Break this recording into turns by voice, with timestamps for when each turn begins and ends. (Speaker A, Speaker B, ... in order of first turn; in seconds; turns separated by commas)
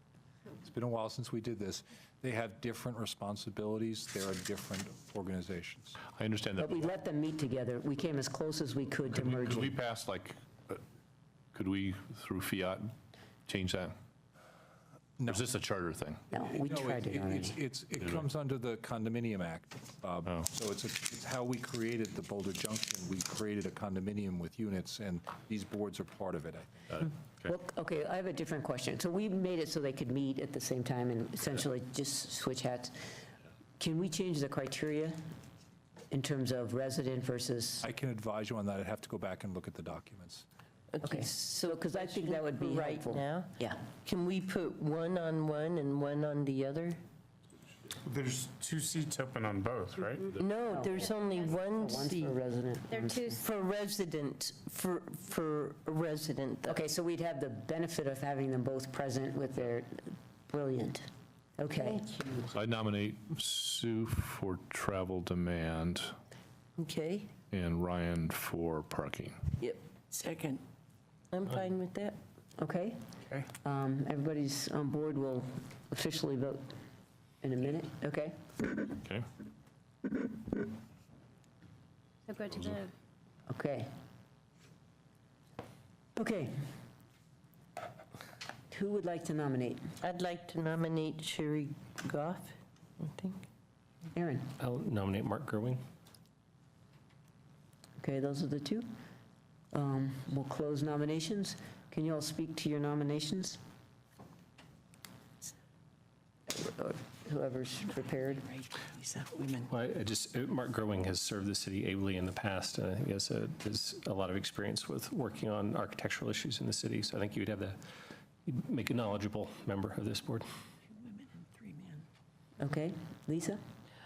Speaker A: 0.6-6.0, Speaker B: 6.1-6.9, Speaker C: 6.6-9.8, Speaker B: 9.1-10.8, Speaker B: 11.5-12.9, Speaker B: 13.5-13.9, Speaker A: 15.2-15.5, Speaker B: 15.3-16.2, Speaker C: 16.3-17.6, Speaker A: 16.4-27.0, Speaker B: 26.9-27.5, Speaker C: 27.4-33.3, Speaker C: 33.8-35.2, Speaker C: 36.1-37.9, Speaker A: 37.8-40.5, Speaker D: 41.0-47.0, Speaker C: 41.0-43.8, Speaker E: 48.0-50.4, Speaker D: 50.4-52.3, Speaker C: 50.7-53.4, Speaker F: 52.9-53.4, Speaker D: 53.4-56.7, Speaker C: 56.7-62.1, Speaker D: 61.8-62.5, Speaker B: 62.5-66.1, Speaker D: 66.8-67.3, Speaker B: 67.5-69.4, Speaker D: 71.3-72.2, Speaker C: 72.6-73.0, Speaker C: 73.6-76.7, Speaker C: 77.4-78.4, Speaker F: 82.3-82.9, Speaker C: 83.5-83.9, Speaker C: 86.2-86.6, Speaker C: 88.7-89.9, Speaker D: 90.0-93.4, Speaker C: 94.1-94.5, Speaker C: 98.0-98.9, Speaker C: 99.7-103.6, Speaker C: 106.5-108.5, Speaker F: 109.8-117.6, Speaker C: 122.6-123.6